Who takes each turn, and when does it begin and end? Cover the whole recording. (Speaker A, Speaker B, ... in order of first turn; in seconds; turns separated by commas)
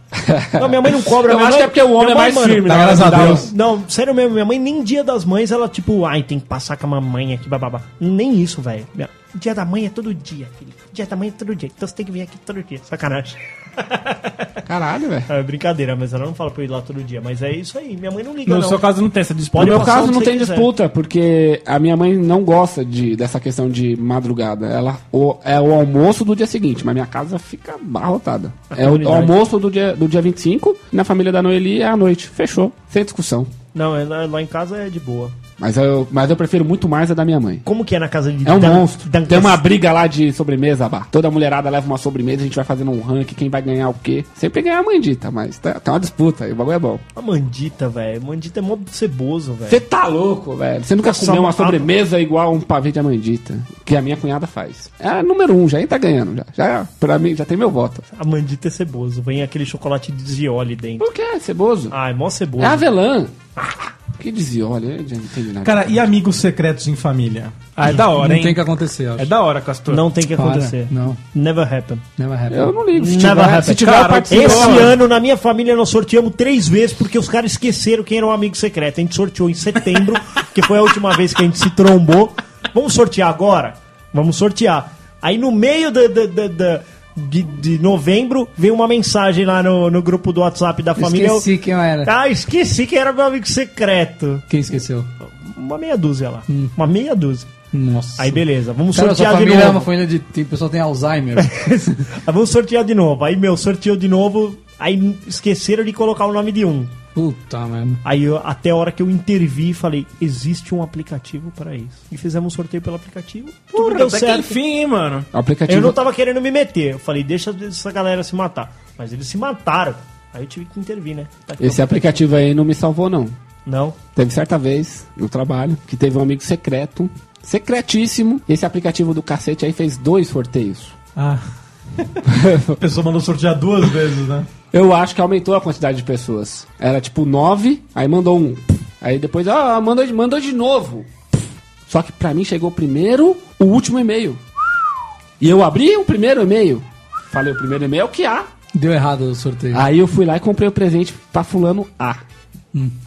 Speaker A: 0.2-3.5, Speaker B: 0.5-14.5, Speaker C: 2.6-3.5, Speaker A: 14.7-15.3, Speaker B: 15.3-18.8, Speaker D: 18.4-20.1, Speaker B: 19.5-20.7, Speaker A: 19.6-33.5, Speaker B: 28.7-29.4, Speaker B: 33.7-35.3, Speaker A: 35.6-37.6, Speaker B: 37.6-39.6, Speaker A: 38.4-47.0, Speaker B: 47.1-49.8, Speaker A: 49.7-58.0, Speaker B: 51.0-51.9, Speaker B: 58.1-61.0, Speaker A: 61.0-61.9, Speaker B: 61.9-62.8, Speaker A: 62.6-63.3, Speaker A: 64.2-66.0, Speaker C: 65.6-67.6, Speaker D: 67.8-68.6, Speaker E: 67.8-69.3, Speaker D: 69.2-70.0, Speaker B: 69.9-72.0, Speaker E: 70.3-71.2, Speaker E: 72.2-72.8, Speaker A: 72.5-75.0, Speaker B: 72.9-91.5, Speaker D: 73.6-75.0, Speaker E: 91.0-92.1, Speaker B: 92.0-94.4, Speaker E: 94.5-95.1, Speaker B: 95.2-97.5, Speaker E: 97.7-101.7, Speaker B: 98.2-99.9, Speaker B: 101.4-106.9, Speaker E: 107.1-108.0, Speaker B: 108.0-114.6, Speaker D: 113.7-115.3, Speaker A: 115.3-116.0, Speaker B: 115.7-122.2, Speaker A: 121.6-123.3, Speaker B: 123.7-124.0, Speaker A: 124.1-130.9, Speaker C: 131.2-131.4, Speaker C: 132.0-134.5, Speaker A: 132.3-132.8, Speaker A: 134.7-141.1, Speaker A: 141.9-144.4, Speaker A: 145.4-148.5, Speaker E: 148.7-149.8, Speaker A: 149.7-152.2